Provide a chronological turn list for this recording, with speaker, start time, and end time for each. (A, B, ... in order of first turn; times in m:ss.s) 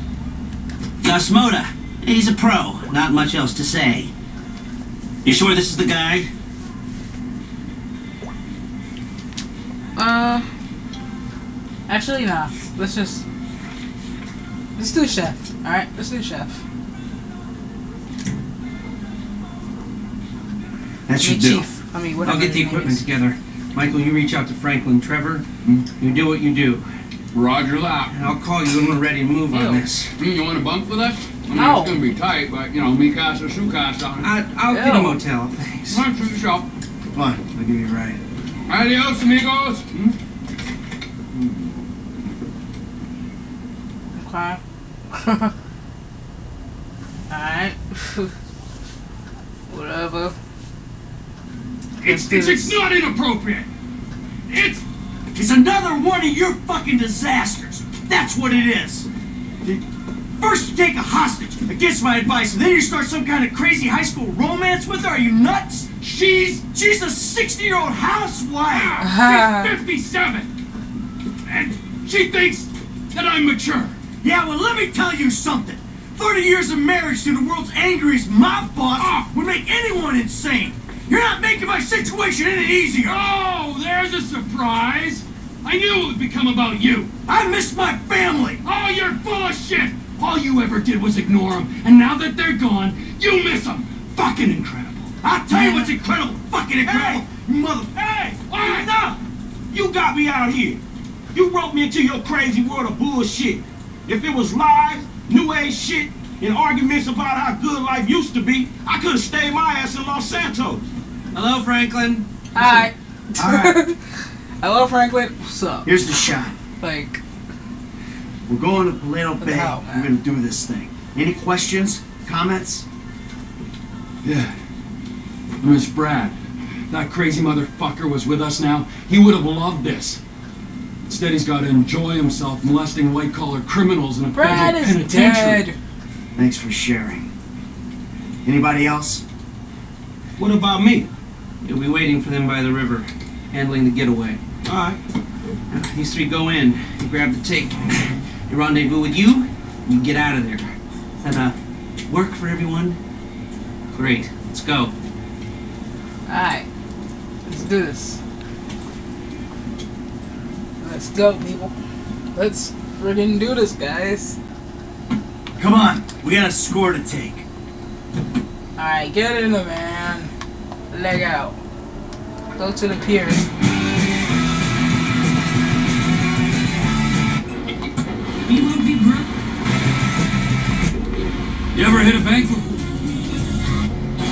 0:01.0-0:04.1 A
0:05.2-0:06.3 A
0:10.0-0:10.4 B
0:11.9-0:13.2 B
0:14.8-0:16.6 B
0:21.1-0:21.6 C
0:21.2-0:23.0 B
0:22.2-0:25.5 D
0:26.0-0:26.8 D
0:27.3-0:28.1 E
0:28.1-0:30.1 D
0:29.5-0:29.8 B
0:30.2-0:34.3 E
0:31.5-0:32.0 B
0:34.2-0:36.0 D
0:34.7-0:35.2 B
0:35.9-0:36.7 E
0:37.1-0:38.2 C
0:38.7-0:39.9 E
0:44.1-0:45.5 B
0:47.3-0:48.3 B
0:49.7-0:50.3 B
0:52.0-0:52.8 B
0:52.0-0:53.7 E
0:54.5-0:54.8 E
0:55.3-0:59.1 C
1:00.4-1:08.9 C
1:06.0-1:06.6 E
1:08.7-1:10.5 E
1:09.0-1:09.7 B
1:11.4-1:13.9 E
1:14.2-1:23.3 C
1:19.0-1:19.3 E
1:23.0-1:27.1 E
1:27.3-1:28.6 C
1:28.6-1:35.1 E
1:35.2-1:38.0 C
1:35.5-1:35.9 B
1:36.8-1:37.2 F
1:38.5-1:38.9 E
1:38.5-1:39.2 F
1:39.7-1:40.8 F
1:41.3-1:50.9 F
1:51.3-1:52.8 D
1:52.5-1:56.0 B
1:53.4-1:53.8 C
1:55.8-1:56.6 C
1:56.8-1:57.2 B
1:58.5-2:02.8 C
1:59.4-2:00.1 B
2:04.2-2:04.5 E
2:05.6-2:06.4 E
2:06.9-2:10.2 E
2:11.0-2:15.6 E
2:14.3-2:15.8 B
2:16.4-2:17.3 C
2:18.4-2:19.2 C
2:20.4-2:21.1 F
2:21.6-2:24.4 D
2:24.6-2:25.0 F
2:25.7-2:28.0 D
2:28.5-2:30.7 D
2:31.2-2:31.5 D
2:32.1-2:33.0 D
2:33.9-2:34.9 D
2:36.3-2:36.7 B
2:37.4-2:38.2 B
2:40.8-2:41.7 B
2:42.3-2:44.4 B
2:45.6-2:47.4 C
2:48.8-2:50.3 B
2:50.9-2:51.6 B
2:52.6-2:53.4 B
3:01.7-3:02.8 E